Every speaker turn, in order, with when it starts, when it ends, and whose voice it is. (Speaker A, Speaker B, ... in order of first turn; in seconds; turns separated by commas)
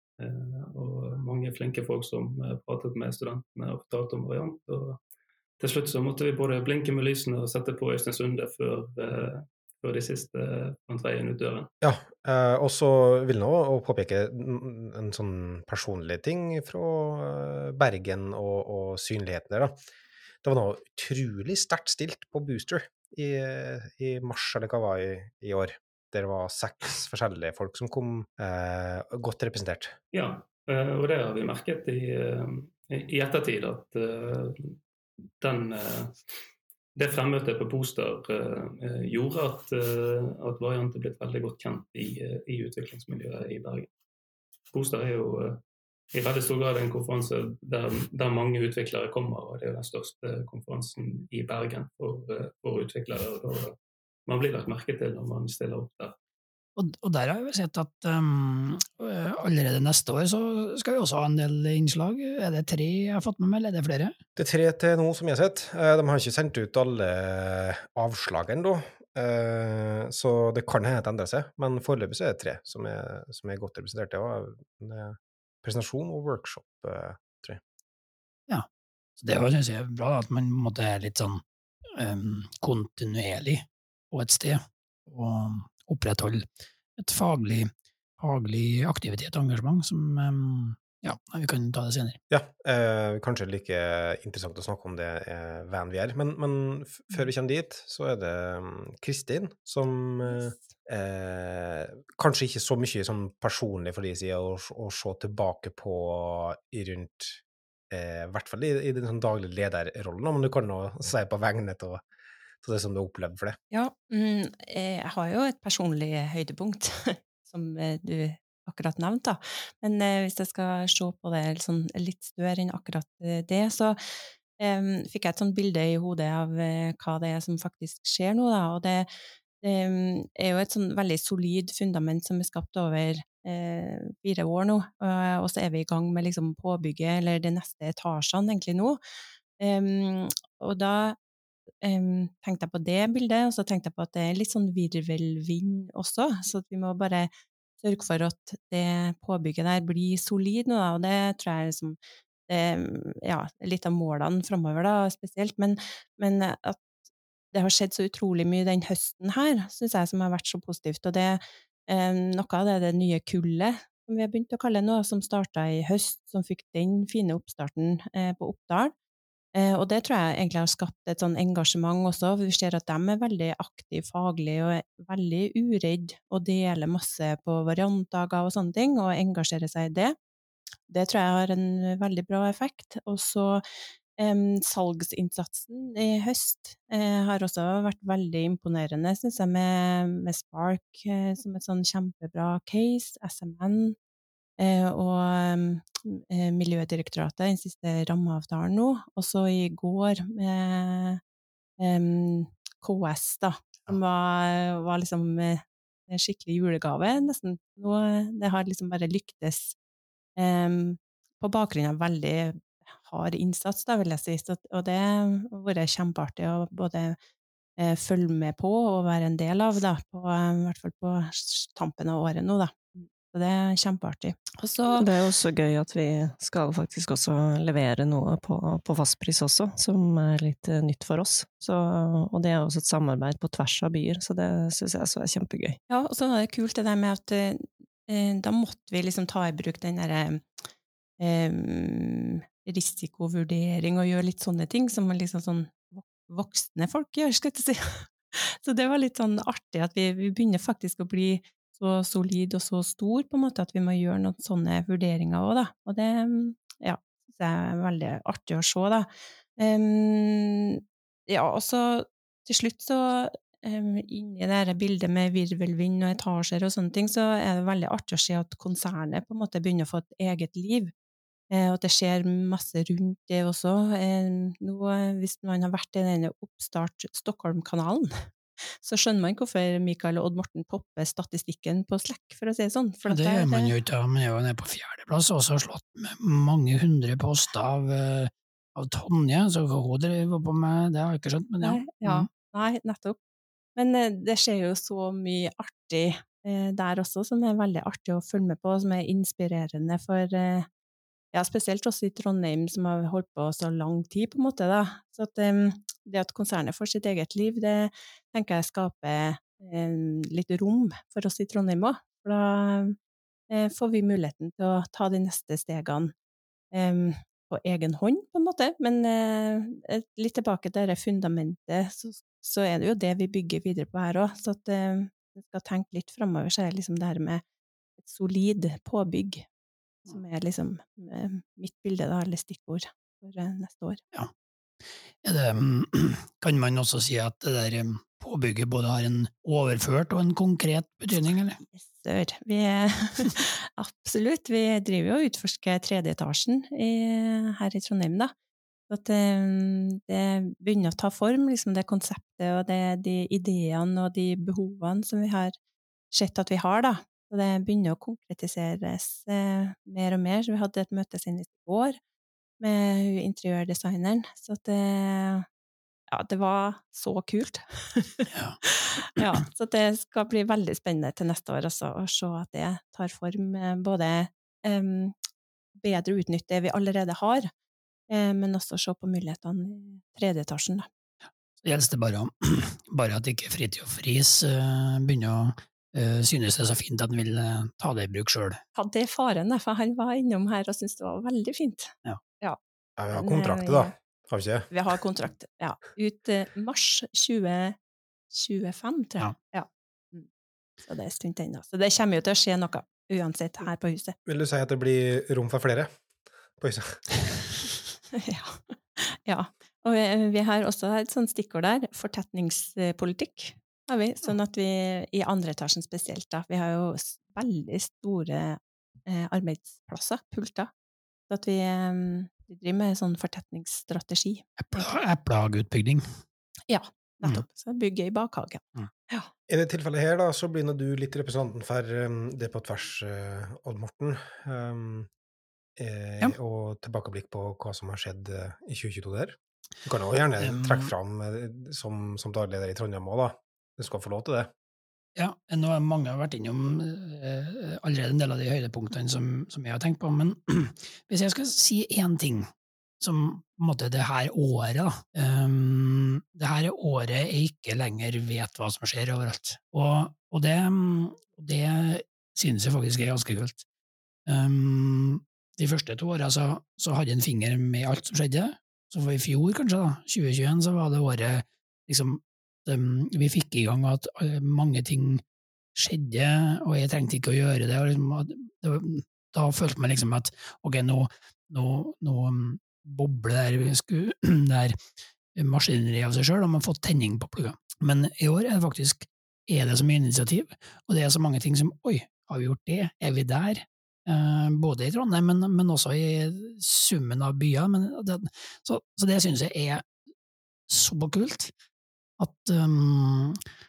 Speaker A: 0.2-5.0, Speaker A: 5.6-11.7, Speaker B: 11.8-19.8, Speaker B: 20.4-29.9, Speaker A: 30.1-34.8, Speaker A: 35.4-36.2, Speaker A: 37.0-43.9, Speaker A: 44.7-45.6, Speaker A: 46.1-53.8, Speaker A: 54.3-56.1, Speaker C: 56.8-64.1, Speaker B: 64.4-77.6, Speaker C: 79.2-81.4, Speaker C: 82.0-92.2, Speaker B: 92.3-112.0, Speaker B: 112.6-113.6, Speaker D: 113.7-129.1, Speaker D: 129.6-139.0, Speaker D: 139.6-141.2, Speaker D: 141.8-147.3, Speaker D: 147.8-156.9, Speaker D: 157.5-168.9, Speaker D: 169.6-180.2, Speaker D: 180.9-183.6, Speaker D: 184.2-194.0, Speaker D: 194.6-201.2, Speaker D: 201.8-209.8, Speaker D: 210.4-217.2, Speaker D: 217.8-225.1, Speaker E: 224.9-235.8, Speaker D: 235.9-240.5, Speaker D: 241.2-270.9, Speaker D: 271.5-278.3, Speaker D: 278.8-283.8, Speaker C: 283.1-292.3, Speaker D: 291.6-293.2, Speaker D: 293.8-300.7, Speaker D: 301.3-313.0, Speaker D: 313.5-316.1, Speaker D: 316.7-327.4, Speaker D: 328.0-329.5, Speaker D: 330.1-334.0, Speaker C: 335.2-341.6, Speaker D: 341.7-348.3, Speaker D: 348.9-355.5, Speaker D: 356.1-362.0, Speaker D: 362.6-365.5, Speaker D: 366.1-375.1, Speaker C: 368.3-368.6, Speaker D: 375.8-377.5, Speaker D: 378.1-380.9, Speaker C: 381.6-388.6, Speaker D: 388.8-392.6, Speaker B: 393.0-394.7, Speaker D: 393.1-393.9, Speaker D: 394.7-397.8, Speaker D: 398.3-400.3, Speaker D: 400.9-404.2, Speaker B: 404.3-405.9, Speaker B: 406.6-407.2, Speaker D: 408.1-420.7, Speaker D: 421.3-424.4, Speaker C: 424.6-426.0, Speaker D: 426.7-429.3, Speaker B: 429.5-435.1, Speaker B: 435.8-444.5, Speaker C: 440.4-440.9, Speaker C: 445.2-463.6, Speaker C: 464.3-475.2, Speaker C: 475.8-484.8, Speaker C: 485.4-499.9, Speaker C: 500.7-501.5, Speaker C: 502.2-503.4